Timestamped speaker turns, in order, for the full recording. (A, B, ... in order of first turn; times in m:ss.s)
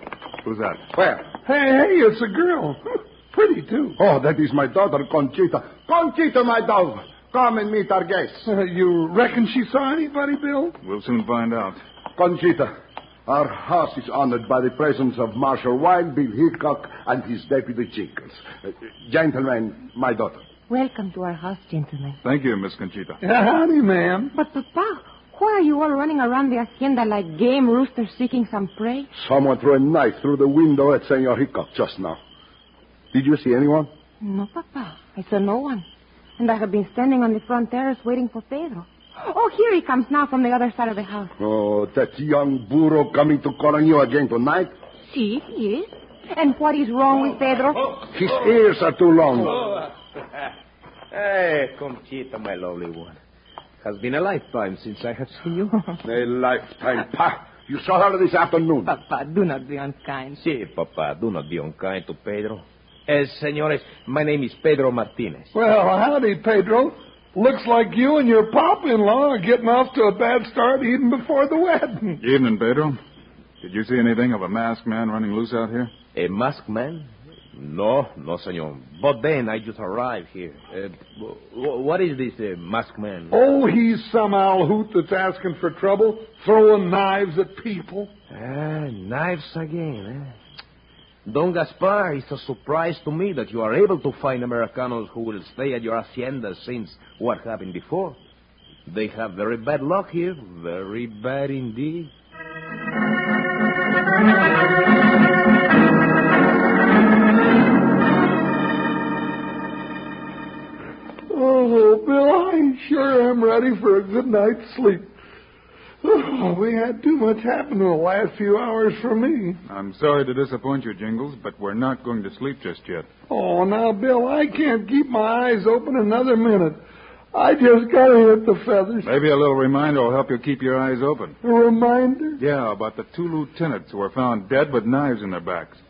0:00.4-0:00.8 A
0:01.0-0:01.3 B
0:01.4-0:04.0 C
0:04.0-0:08.5 B
0:08.4-0:10.7 C
0:10.8-0:11.8 A
0:12.2-0:12.7 B
0:13.2-0:20.4 B
0:20.7-0:22.2 D
0:22.2-0:23.2 A
0:23.2-0:24.3 C
0:24.3-0:29.1 D
0:29.1-0:32.2 B
0:33.1-0:33.9 B
0:34.2-0:35.8 D
0:36.4-0:41.3 D
0:41.4-0:44.7 B
0:45.0-0:48.0 D
0:48.1-0:49.6 B
0:51.1-0:53.2 E
0:53.8-0:55.4 E
0:55.4-0:56.0 D
0:56.0-0:58.9 B
0:58.8-1:00.4 D
1:00.4-1:05.5 E
1:05.5-1:12.2 C
1:12.2-1:13.0 A
1:13.6-1:15.9 A
1:16.1-1:23.3 E
1:23.3-1:28.1 C
1:28.3-1:30.3 E
1:31.2-1:38.2 E
1:38.9-1:42.1 E
1:51.3-1:55.1 C
1:56.0-1:59.6 C
1:59.6-2:03.1 A
2:03.3-2:06.8 C
2:07.3-2:09.1 C
2:09.0-2:11.4 A
2:11.4-2:12.4 C
2:12.4-2:15.8 A